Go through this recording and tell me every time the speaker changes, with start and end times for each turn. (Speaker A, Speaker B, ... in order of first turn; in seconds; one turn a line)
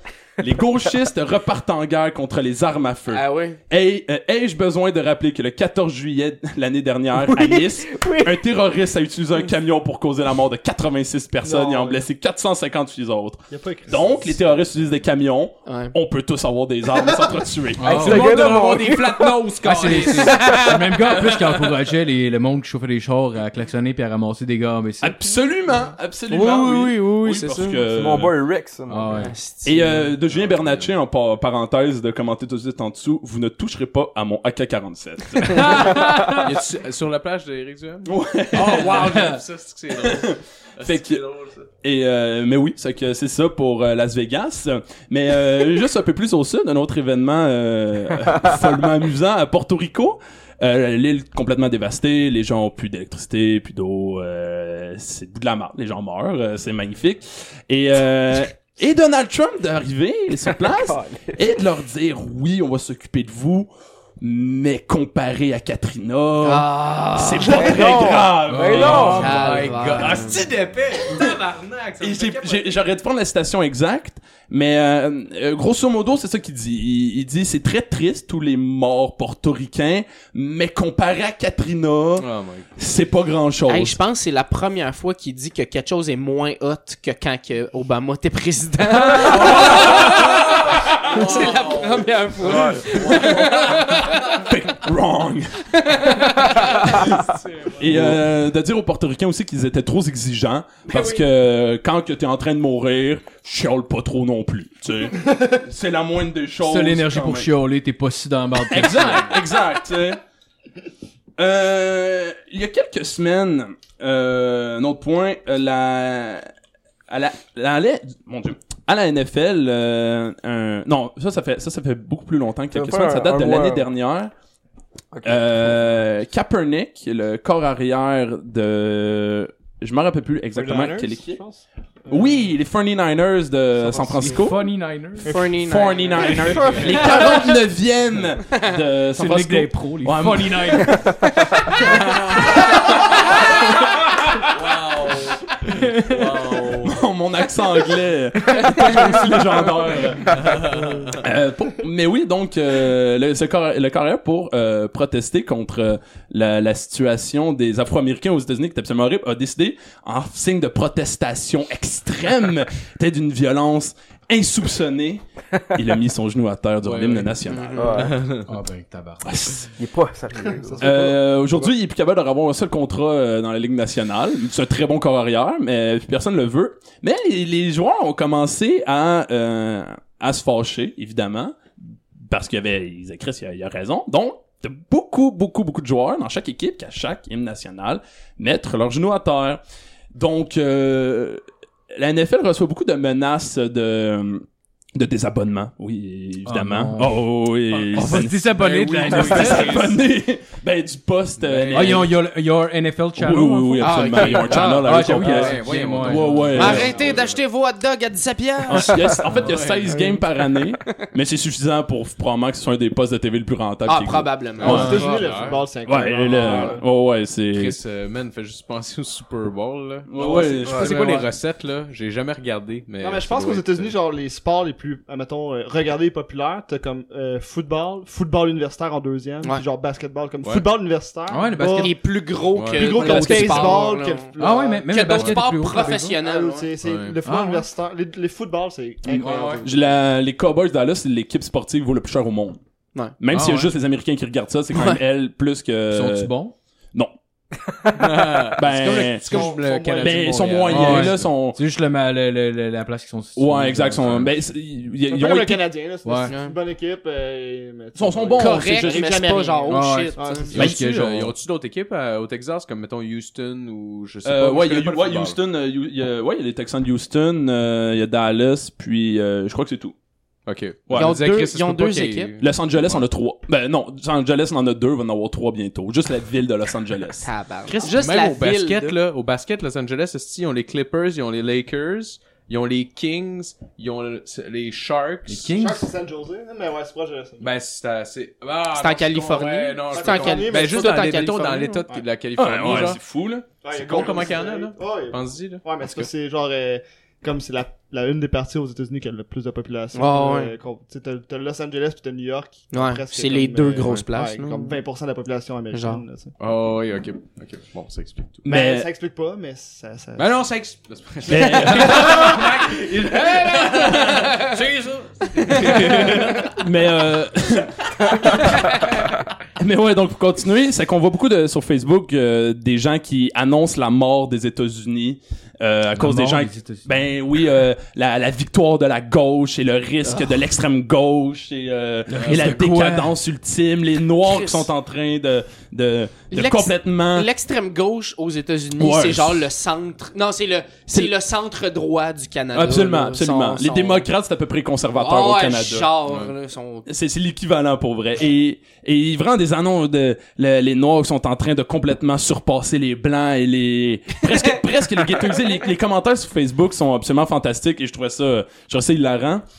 Speaker A: 0.4-18.1
Speaker B: 3.1-3.6
Speaker C: 7.2-8.4
Speaker D: 11.4-12.0
Speaker D: 13.5-14.5
Speaker B: 15.7-15.9
Speaker E: 17.8-18.4
Speaker F: 17.8-20.5
Speaker C: 17.8-19.5
Speaker E: 19.6-25.1
Speaker B: 20.0-20.9
Speaker F: 21.1-21.7
Speaker A: 25.0-28.4
Speaker B: 26.3-27.8
Speaker C: 27.9-29.3
Speaker E: 28.9-29.3
Speaker B: 29.2-30.0
Speaker A: 29.6-36.0
Speaker F: 30.2-30.9
Speaker E: 35.5-36.4
Speaker F: 36.0-41.6
Speaker A: 38.0-39.2
Speaker E: 39.1-39.4
Speaker A: 39.9-41.3
Speaker A: 41.8-70.2
Speaker C: 60.6-61.4
Speaker B: 66.4-68.0
Speaker C: 67.5-69.3
Speaker E: 68.5-70.1
Speaker F: 68.7-72.8
Speaker B: 69.1-70.5
Speaker A: 72.0-84.0
Speaker F: 82.2-82.7
Speaker B: 83.7-94.3
Speaker F: 89.1-94.1
Speaker A: 92.4-96.1
Speaker B: 95.7-97.1
Speaker F: 97.2-98.2
Speaker A: 97.8-107.5
Speaker B: 100.9-101.2
Speaker E: 106.6-109.4
Speaker A: 108.7-110.2
Speaker A: 111.4-116.5
Speaker A: 117.1-124.3
Speaker C: 122.7-123.9
Speaker C: 125.1-125.8
Speaker A: 125.2-131.4
Speaker D: 130.5-132.3
Speaker A: 132.1-134.6
Speaker D: 133.8-134.3
Speaker E: 134.2-135.3
Speaker D: 135.2-135.6
Speaker B: 135.2-137.1
Speaker A: 135.6-141.2
Speaker F: 136.2-137.1
Speaker D: 136.4-137.0
Speaker E: 139.2-141.1
Speaker A: 141.9-143.8
Speaker F: 142.1-142.5
Speaker F: 144.5-146.9
Speaker E: 145.7-146.2
Speaker A: 146.7-150.6
Speaker F: 150.3-151.2
Speaker A: 151.2-168.1
Speaker F: 166.8-167.4
Speaker B: 167.4-168.1
Speaker C: 167.8-168.2
Speaker F: 167.9-168.5
Speaker E: 168.4-169.5
Speaker A: 169.2-169.7
Speaker C: 169.8-171.1
Speaker D: 170.3-171.6
Speaker A: 170.8-181.6
Speaker A: 182.2-189.6
Speaker A: 190.1-191.4
Speaker A: 191.9-202.1
Speaker E: 196.4-197.2
Speaker F: 197.7-200.0
Speaker E: 197.8-199.8
Speaker F: 201.4-202.1
Speaker E: 201.7-206.8
Speaker A: 203.2-207.1
Speaker B: 203.8-204.9
Speaker F: 204.7-207.4
Speaker B: 206.6-209.1
Speaker A: 208.7-215.0
Speaker F: 209.3-210.1
Speaker B: 213.8-215.6
Speaker F: 214.6-215.7
Speaker D: 214.6-216.8
Speaker E: 214.6-214.9
Speaker A: 215.8-217.8
Speaker F: 217.5-223.9
Speaker A: 220.1-221.2
Speaker E: 221.0-221.3
Speaker D: 223.0-231.9
Speaker E: 231.3-231.9
Speaker B: 231.8-234.3
Speaker F: 232.5-233.1
Speaker D: 232.7-239.9
Speaker E: 233.1-233.4
Speaker A: 233.2-233.8
Speaker E: 234.4-236.2
Speaker B: 234.9-236.7
Speaker F: 236.8-237.2
Speaker E: 237.2-237.6
Speaker A: 239.1-242.6
Speaker E: 239.1-239.6
Speaker A: 243.2-246.3
Speaker E: 243.3-243.7
Speaker B: 244.7-245.0
Speaker E: 245.9-246.5
Speaker F: 247.9-251.3
Speaker A: 248.5-251.6
Speaker D: 249.0-250.7
Speaker E: 250.7-254.4
Speaker A: 253.3-255.7
Speaker D: 255.1-260.5
Speaker E: 256.0-256.3
Speaker B: 256.3-256.5
Speaker A: 257.9-259.2
Speaker B: 258.4-260.5
Speaker E: 259.7-261.3
Speaker F: 260.5-265.4
Speaker A: 264.2-269.9
Speaker F: 270.4-273.0
Speaker A: 270.9-271.2
Speaker B: 270.9-272.3
Speaker A: 272.4-277.3
Speaker B: 277.2-279.0
Speaker F: 277.7-285.5
Speaker E: 285.3-285.9
Speaker D: 285.5-287.5
Speaker F: 287.4-293.0
Speaker B: 288.7-291.9
Speaker D: 289.9-291.0
Speaker A: 292.4-294.4
Speaker D: 293.6-306.3
Speaker F: 293.7-296.1
Speaker B: 299.9-300.5
Speaker B: 302.7-304.8
Speaker B: 305.7-306.0
Speaker F: 306.4-308.4
Speaker A: 308.4-308.9
Speaker D: 308.4-310.6
Speaker F: 310.2-316.4
Speaker A: 311.2-312.4
Speaker B: 313.6-314.5
Speaker A: 313.9-314.3
Speaker B: 315.4-316.3
Speaker A: 315.5-318.6
Speaker A: 319.6-337.3
Speaker E: 325.9-326.9
Speaker E: 332.1-333.1
Speaker F: 332.2-332.5
Speaker B: 334.2-334.7
Speaker B: 336.3-344.1
Speaker A: 338.8-339.4
Speaker A: 342.5-345.9
Speaker B: 344.9-346.9
Speaker F: 346.0-346.3
Speaker A: 346.9-359.4